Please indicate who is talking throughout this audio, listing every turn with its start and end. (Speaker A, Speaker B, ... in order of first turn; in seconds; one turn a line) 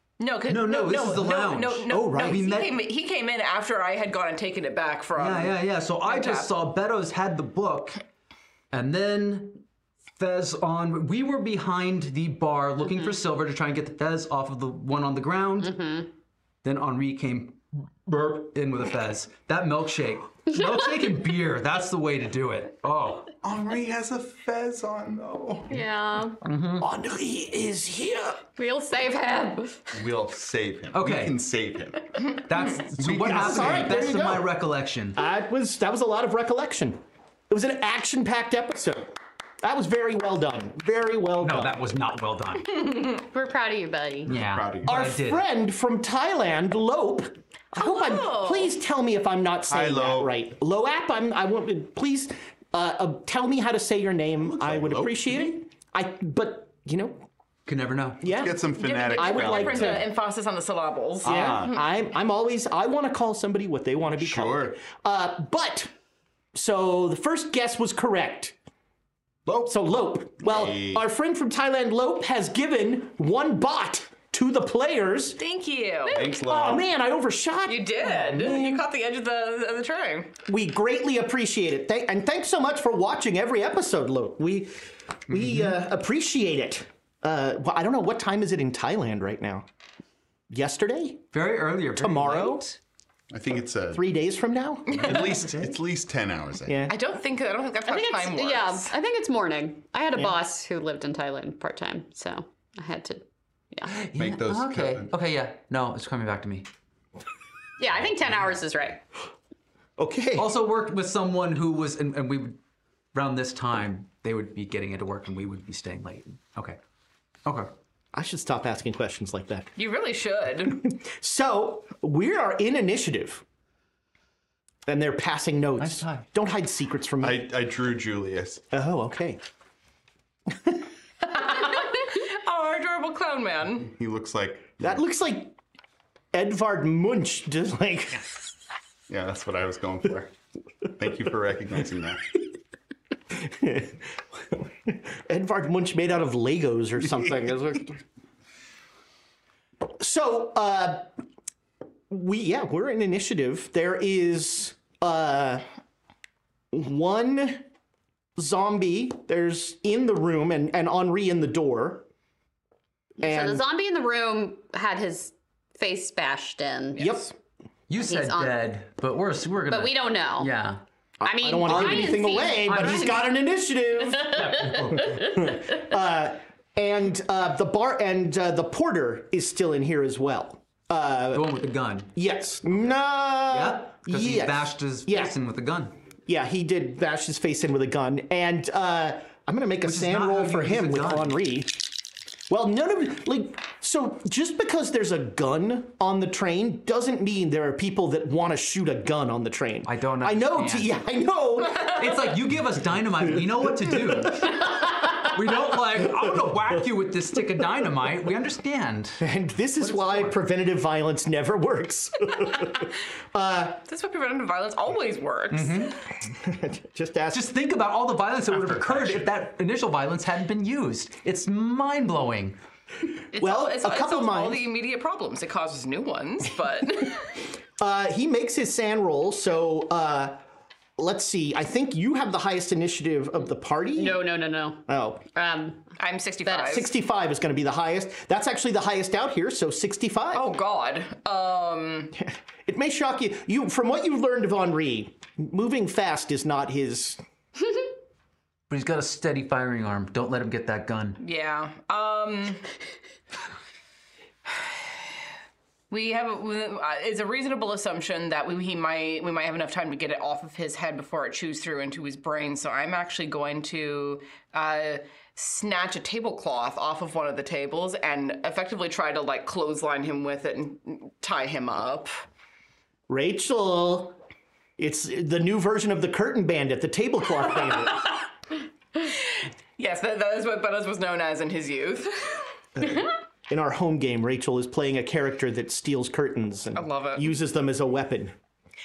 Speaker A: 0.2-6.5
Speaker B: 0.5-2.8
Speaker C: 1.9-2.4
Speaker B: 5.2-8.0
Speaker B: 8.7-9.6
Speaker B: 10.2-15.8
Speaker D: 15.6-16.1
Speaker B: 16.6-23.3
Speaker E: 23.4-25.8
Speaker D: 25.7-26.4
Speaker B: 26.4-26.9
Speaker C: 26.8-28.4
Speaker D: 28.6-29.9
Speaker E: 29.9-32.4
Speaker B: 30.9-31.4
Speaker B: 32.5-35.2
Speaker E: 33.0-34.0
Speaker C: 33.1-34.5
Speaker C: 35.1-39.1
Speaker C: 39.6-41.8
Speaker B: 41.4-42.8
Speaker D: 43.1-44.3
Speaker B: 44.3-45.5
Speaker E: 44.3-45.1
Speaker C: 44.8-57.3
Speaker A: 47.8-48.7
Speaker E: 49.7-50.3
Speaker E: 54.4-55.5
Speaker B: 57.7-58.3
Speaker C: 58.2-60.1
Speaker E: 58.3-60.1
Speaker A: 58.7-61.8
Speaker E: 61.2-61.8
Speaker C: 61.2-65.9
Speaker E: 64.2-64.8
Speaker C: 66.5-68.5
Speaker E: 69.5-69.8
Speaker C: 69.7-75.4
Speaker E: 70.4-71.0
Speaker A: 75.4-76.2
Speaker E: 76.1-76.9
Speaker C: 76.3-78.8
Speaker A: 77.7-80.3
Speaker C: 80.5-84.8
Speaker C: 85.3-89.7
Speaker B: 85.3-85.7
Speaker C: 90.5-91.3
Speaker B: 91.3-92.8
Speaker C: 92.0-92.7
Speaker E: 93.3-94.0
Speaker C: 93.9-95.7
Speaker E: 94.9-96.8
Speaker A: 95.0-95.2
Speaker C: 96.7-97.0
Speaker A: 96.9-98.9
Speaker D: 97.8-103.9
Speaker B: 103.8-106.7
Speaker E: 104.2-105.1
Speaker D: 107.8-109.0
Speaker C: 110.0-110.5
Speaker B: 110.4-112.6
Speaker B: 113.1-116.8
Speaker B: 117.5-117.7
Speaker C: 118.1-119.8
Speaker A: 119.8-120.8
Speaker C: 120.7-123.4
Speaker C: 124.9-127.5
Speaker B: 125.8-126.3
Speaker E: 127.2-128.6
Speaker C: 128.7-129.4
Speaker C: 130.5-130.8
Speaker A: 131.2-133.9
Speaker E: 133.9-135.0
Speaker C: 134.8-135.6
Speaker C: 136.3-138.3
Speaker E: 139.1-140.3
Speaker E: 140.9-142.4
Speaker C: 143.3-148.0
Speaker C: 150.0-151.1
Speaker C: 152.1-155.6
Speaker C: 156.7-157.7
Speaker C: 158.4-162.1
Speaker C: 163.2-163.7
Speaker D: 163.2-167.2
Speaker C: 167.0-167.3
Speaker B: 167.9-170.8
Speaker D: 168.0-168.7
Speaker D: 169.7-170.5
Speaker C: 171.2-181.5
Speaker D: 171.2-173.3
Speaker E: 171.7-172.1
Speaker B: 174.3-175.2
Speaker D: 175.0-175.2
Speaker B: 181.3-182.1
Speaker C: 182.2-185.4
Speaker B: 183.5-186.0
Speaker C: 186.3-191.9
Speaker B: 189.8-191.4
Speaker C: 192.5-202.2
Speaker B: 199.8-200.9
Speaker B: 201.9-209.2
Speaker C: 203.8-204.6
Speaker C: 209.2-213.8
Speaker B: 209.8-210.4
Speaker A: 213.9-216.0
Speaker B: 215.5-216.0
Speaker C: 216.3-217.5
Speaker B: 217.3-222.6
Speaker C: 218.6-219.3
Speaker A: 223.3-227.4
Speaker C: 223.3-224.7
Speaker C: 227.8-230.4
Speaker C: 231.0-234.2
Speaker D: 234.0-235.9
Speaker C: 234.9-235.2
Speaker A: 236.0-236.9
Speaker D: 236.4-236.8
Speaker C: 236.7-240.4
Speaker A: 240.3-242.1
Speaker C: 242.2-247.2
Speaker B: 248.7-251.2
Speaker A: 251.2-252.6
Speaker A: 255.9-272.1
Speaker C: 273.1-274.2
Speaker C: 274.8-278.1
Speaker A: 279.0-282.4
Speaker C: 282.8-288.4
Speaker A: 286.8-287.3